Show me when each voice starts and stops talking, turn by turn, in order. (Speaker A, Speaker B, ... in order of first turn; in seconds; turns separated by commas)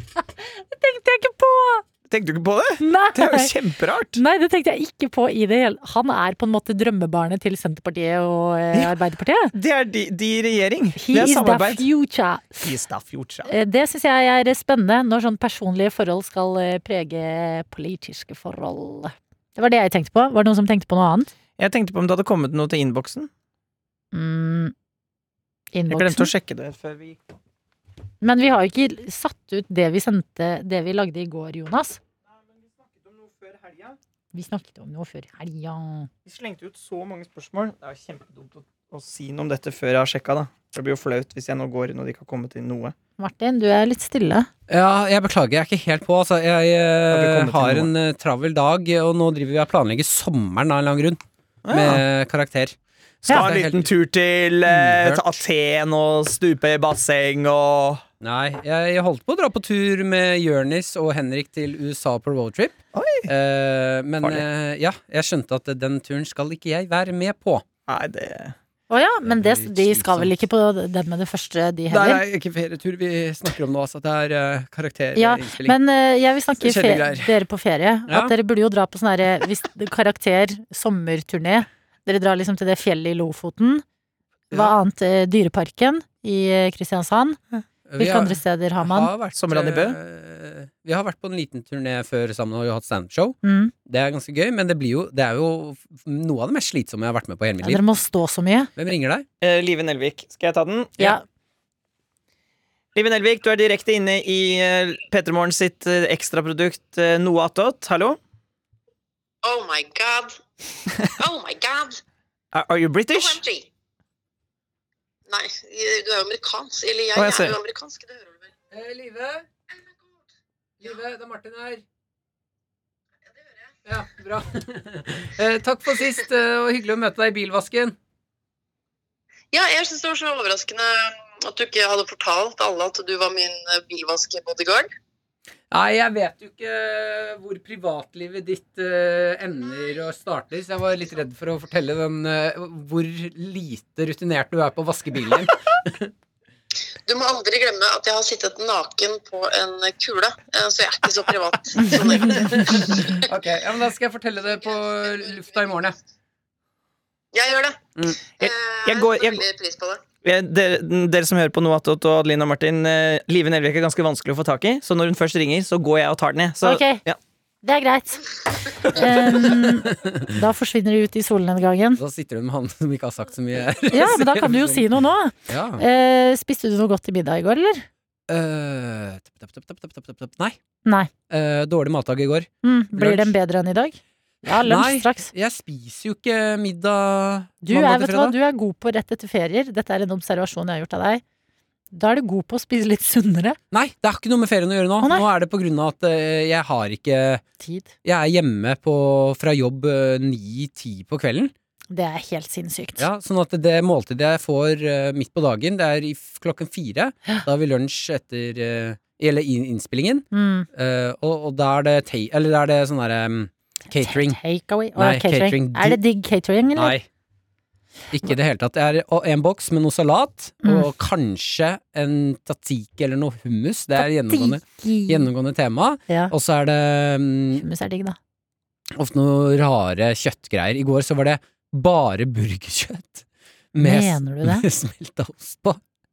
Speaker A: 0.2-1.8, Speaker B: 2.1-4.2, Speaker A: 2.8-3.5, Speaker A: 4.1-9.5, Speaker B: 9.5-11.8, Speaker A: 11.0-12.7, Speaker B: 12.6-13.5, Speaker A: 13.5-21.3, Speaker B: 21.6-23.3, Speaker A: 24.1-24.7, Speaker A: 25.7-26.3, Speaker B: 25.9-27.2, Speaker A: 28.2-32.0, Speaker B: 32.6-34.0, Speaker A: 34.3-36.1, Speaker B: 36.2-43.0, Speaker A: 43.2-44.5, Speaker C: 44.7-52.8, Speaker B: 47.1-47.9, Speaker B: 51.6-52.0, Speaker B: 53.3-58.0, Speaker C: 53.3-53.9, Speaker C: 54.7-55.4, Speaker C: 58.2-67.6, Speaker B: 62.9-63.3, Speaker B: 67.9-68.5, Speaker A: 68.9-72.2, Speaker C: 69.2-70.3, Speaker C: 71.9-75.8, Speaker A: 75.2-83.8, Speaker C: 76.6-77.3, Speaker C: 78.1-78.3, Speaker A: 84.5-87.4, Speaker C: 87.9-97.8, Speaker A: 88.0-89.1, Speaker B: 89.3-90.0, Speaker A: 93.4-93.7, Speaker A: 97.6-98.7, Speaker C: 98.8-99.2, Speaker B: 99.4-101.2, Speaker B: 103.0-108.2, Speaker D: 109.4-110.4, Speaker D: 111.2-112.0, Speaker B: 112.5-113.4, Speaker D: 113.1-113.7, Speaker D: 115.3-118.5, Speaker B: 117.2-117.6, Speaker C: 118.7-119.5, Speaker C: 120.8-121.8, Speaker C: 123.9-128.0, Speaker D: 129.5-134.9, Speaker C: 135.7-146.1, Speaker D: 147.1-153.2, Speaker C: 152.3-156.0, Speaker D: 157.3-160.0, Speaker B: 158.4-159.4, Speaker B: 160.2-167.2, Speaker A: 166.6-167.0, Speaker A: 167.6-172.0, Speaker C: 172.0-174.9, Speaker A: 173.9-177.9, Speaker C: 175.5-175.8, Speaker C: 178.3-180.6, Speaker C: 181.3-183.3, Speaker A: 182.6-185.3, Speaker C: 184.5-188.4, Speaker A: 187.6-191.2, Speaker A: 191.9-193.6, Speaker C: 193.7-197.4, Speaker A: 195.0-195.3, Speaker A: 197.6-197.9, Speaker C: 198.0-201.5, Speaker A: 201.9-203.1, Speaker C: 203.0-214.4, Speaker A: 210.3-210.7, Speaker A: 214.0-217.0, Speaker C: 215.0-216.0, Speaker C: 216.8-217.1, Speaker C: 218.1-227.6, Speaker A: 220.6-220.9, Speaker A: 224.0-225.3, Speaker A: 227.6-228.2, Speaker C: 228.9-235.8, Speaker A: 233.8-234.7